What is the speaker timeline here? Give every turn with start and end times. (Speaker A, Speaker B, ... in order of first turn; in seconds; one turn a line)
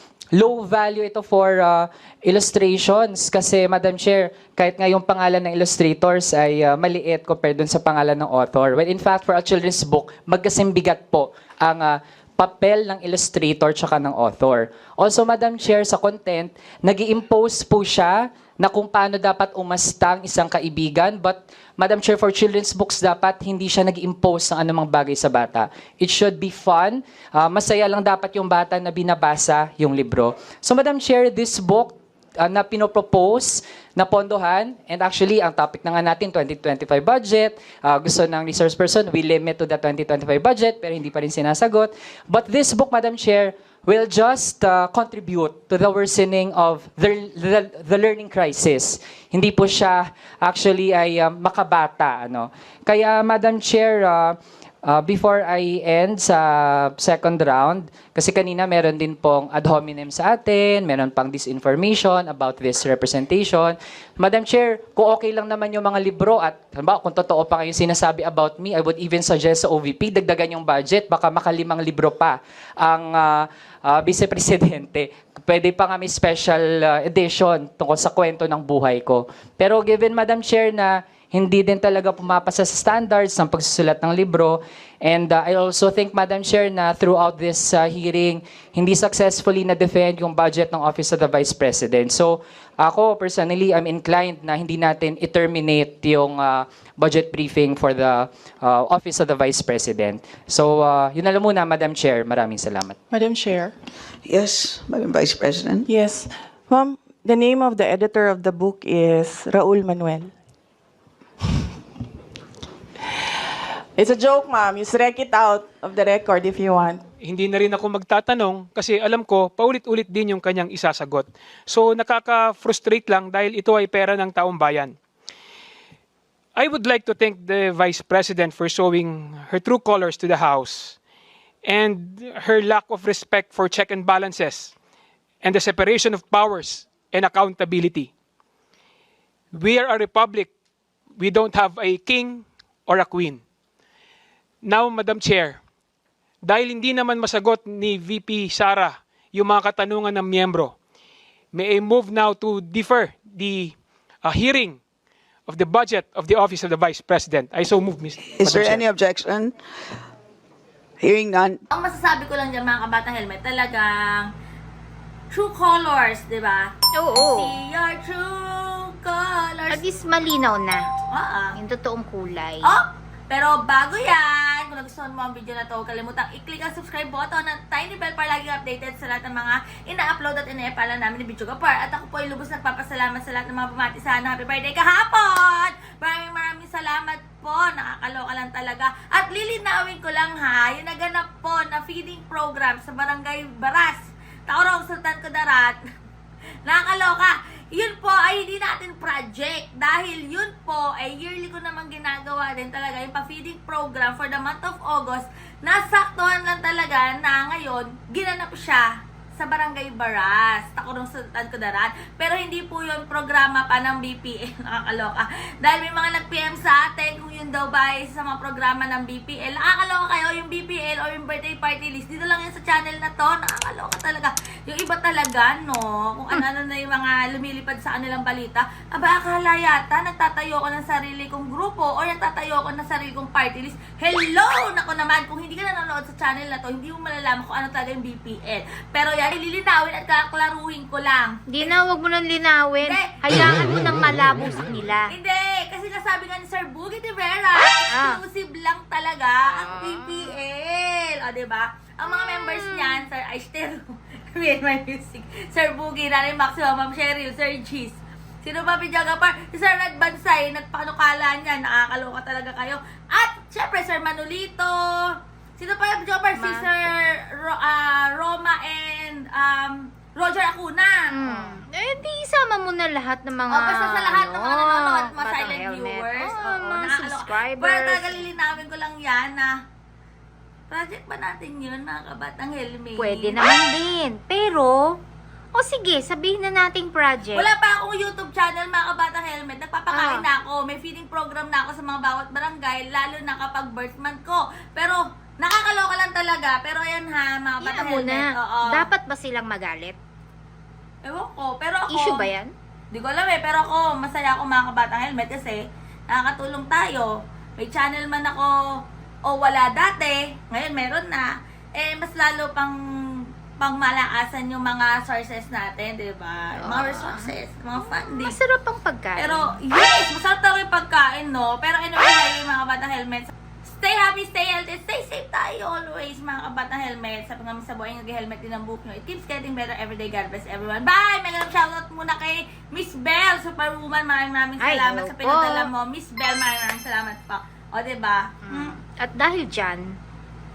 Speaker A: 0.3-54.4
Speaker A: 54.9-103.0
Speaker B: 103.1-103.7
Speaker C: 104.2-105.8
Speaker B: 105.9-110.3
Speaker B: 114.0-117.0
Speaker D: 117.2-125.0
Speaker D: 126.5-131.0
Speaker D: 131.6-134.7
Speaker D: 135.4-138.1
Speaker D: 139.5-140.5
Speaker D: 141.2-143.4
Speaker D: 144.6-145.6
Speaker D: 146.4-150.7
Speaker D: 151.5-154.8
Speaker D: 155.5-158.8
Speaker C: 158.3-159.5
Speaker C: 161.0-161.6
Speaker E: 161.7-164.3
Speaker E: 165.3-169.8
Speaker F: 167.0-167.5
Speaker F: 169.7-170.8
Speaker E: 171.1-171.5
Speaker F: 171.6-172.7
Speaker E: 172.6-195.8
Speaker E: 196.6-241.8
Speaker F: 241.5-245.1
Speaker E: 242.8-243.7
Speaker E: 245.1-264.8
Speaker F: 247.9-248.2
Speaker F: 249.6-250.3
Speaker F: 252.1-253.0
Speaker E: 265.6-271.1
Speaker F: 266.4-266.7
Speaker F: 271.1-278.2
Speaker E: 273.5-279.5
Speaker E: 280.7-283.4
Speaker F: 283.0-285.0
Speaker F: 285.5-287.5
Speaker E: 287.3-298.9
Speaker F: 289.9-290.2
Speaker F: 297.6-300.0
Speaker E: 301.0-302.3
Speaker F: 301.9-302.5
Speaker E: 302.9-308.5
Speaker E: 309.3-312.8
Speaker E: 313.6-318.4
Speaker F: 316.5-317.3
Speaker F: 318.2-319.5
Speaker E: 319.2-338.8
Speaker F: 334.6-335.7
Speaker F: 338.4-339.9